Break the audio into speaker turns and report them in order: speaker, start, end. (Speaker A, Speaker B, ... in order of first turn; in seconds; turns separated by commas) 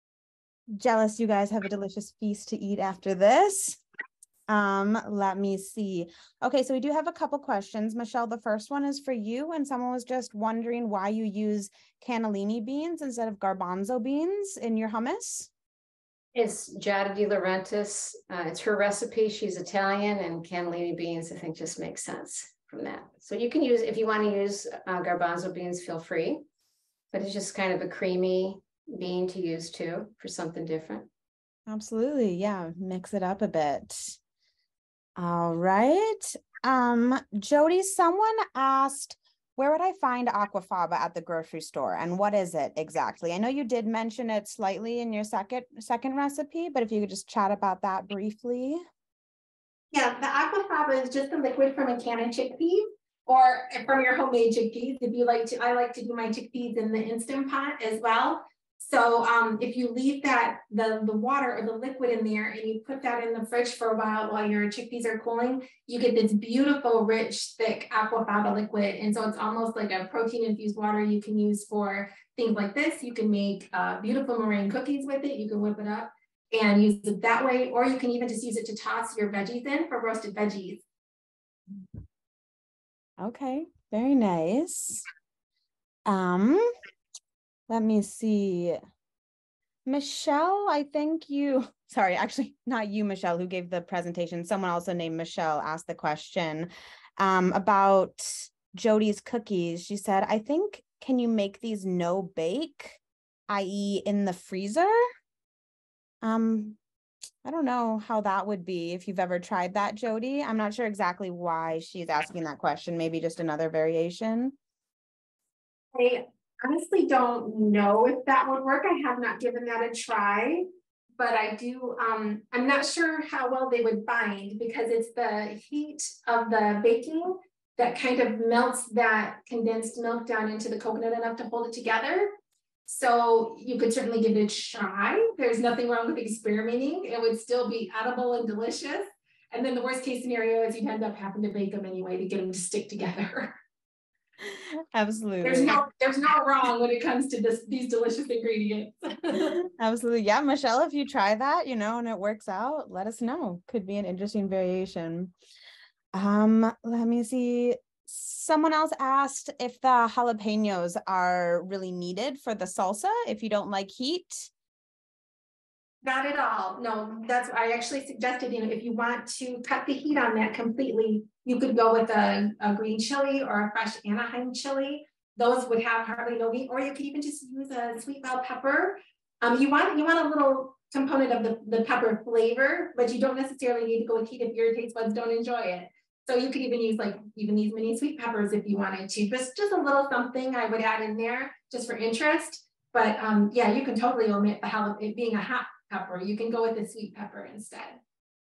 Speaker A: 0.7-3.8, Speaker A: 4.5-15.5, Speaker B: 16.3-26.4, Speaker B: 27.1-31.1, Speaker A: 31.7-34.2, Speaker A: 35.2-48.8, Speaker C: 49.9-80.8, Speaker A: 83.2-85.0, Speaker A: 86.1-86.7, Speaker A: 87.7-88.8, Speaker A: 89.8-105.0, Speaker A: 106.2-106.8, Speaker A: 107.4-114.5, Speaker C: 115.9-120.6, Speaker C: 121.2-132.3, Speaker C: 132.8-143.6, Speaker A: 144.4-145.8, Speaker C: 145.4-149.6, Speaker A: 149.5-155.3, Speaker A: 156.1-164.5, Speaker C: 166.0-198.0